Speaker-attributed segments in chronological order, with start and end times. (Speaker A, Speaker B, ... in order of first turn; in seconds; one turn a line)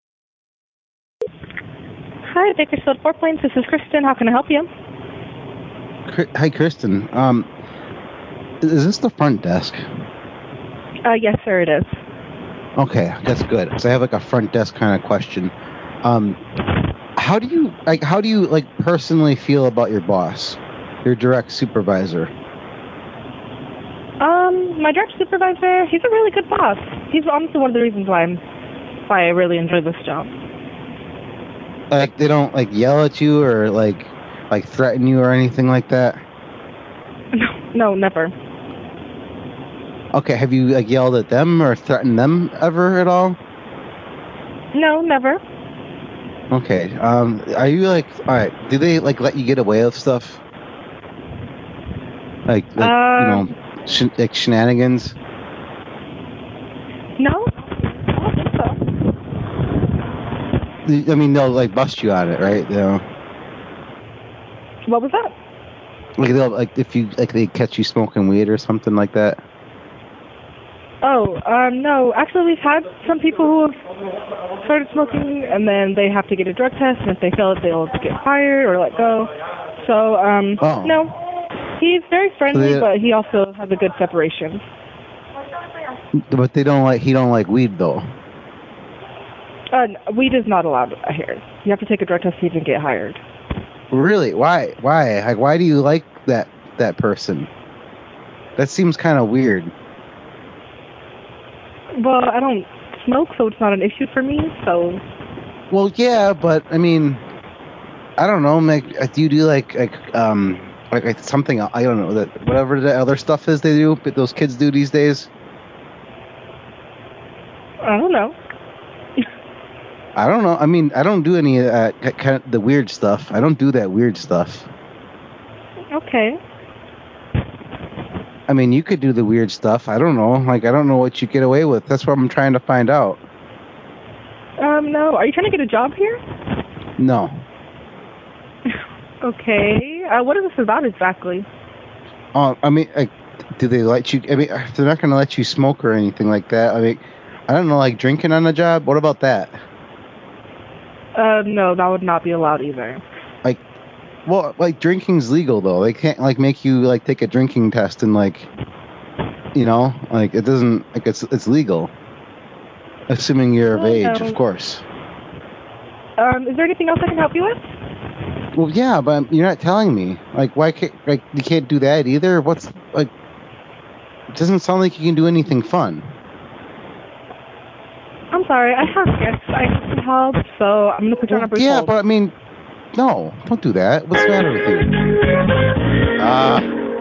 Speaker A: 2.2-4.7
Speaker B: 6.1-7.5
Speaker B: 8.6-9.8
Speaker A: 11.1-11.9
Speaker B: 12.8-16.4
Speaker B: 17.1-22.3
Speaker A: 24.2-28.4
Speaker A: 29.1-30.3
Speaker B: 31.9-36.2
Speaker A: 37.3-38.3
Speaker B: 40.1-43.4
Speaker A: 44.7-45.4
Speaker B: 46.5-50.4
Speaker B: 52.5-55.1
Speaker A: 52.8-53.5
Speaker A: 57.2-58.8
Speaker B: 60.8-63.0
Speaker A: 64.9-65.3
Speaker B: 66.2-69.4
Speaker A: 71.0-73.7
Speaker A: 74.6-81.1
Speaker B: 80.6-81.0
Speaker A: 81.8-84.6
Speaker B: 82.5-82.9
Speaker B: 86.1-88.1
Speaker A: 89.7-93.2
Speaker B: 93.9-97.5
Speaker B: 98.6-99.7
Speaker A: 102.0-105.0
Speaker B: 105.7-107.2
Speaker B: 108.2-115.3
Speaker A: 117.8-118.3
Speaker B: 120.2-124.7
Speaker A: 125.9-126.4
Speaker B: 128.5-133.2
Speaker A: 134.6-136.2
Speaker B: 137.0-137.4
Speaker A: 138.7-141.4
Speaker B: 142.3-149.6
Speaker A: 151.2-153.0
Speaker B: 154.2-158.5
Speaker B: 159.5-161.9
Speaker B: 163.1-164.8
Speaker A: 163.7-164.3
Speaker A: 166.2-167.6
Speaker B: 168.5-173.1
Speaker B: 174.3-176.1
Speaker A: 178.3-181.9
Speaker B: 181.3-182.3
Speaker B: 182.9-184.9
Speaker B: 186.2-186.7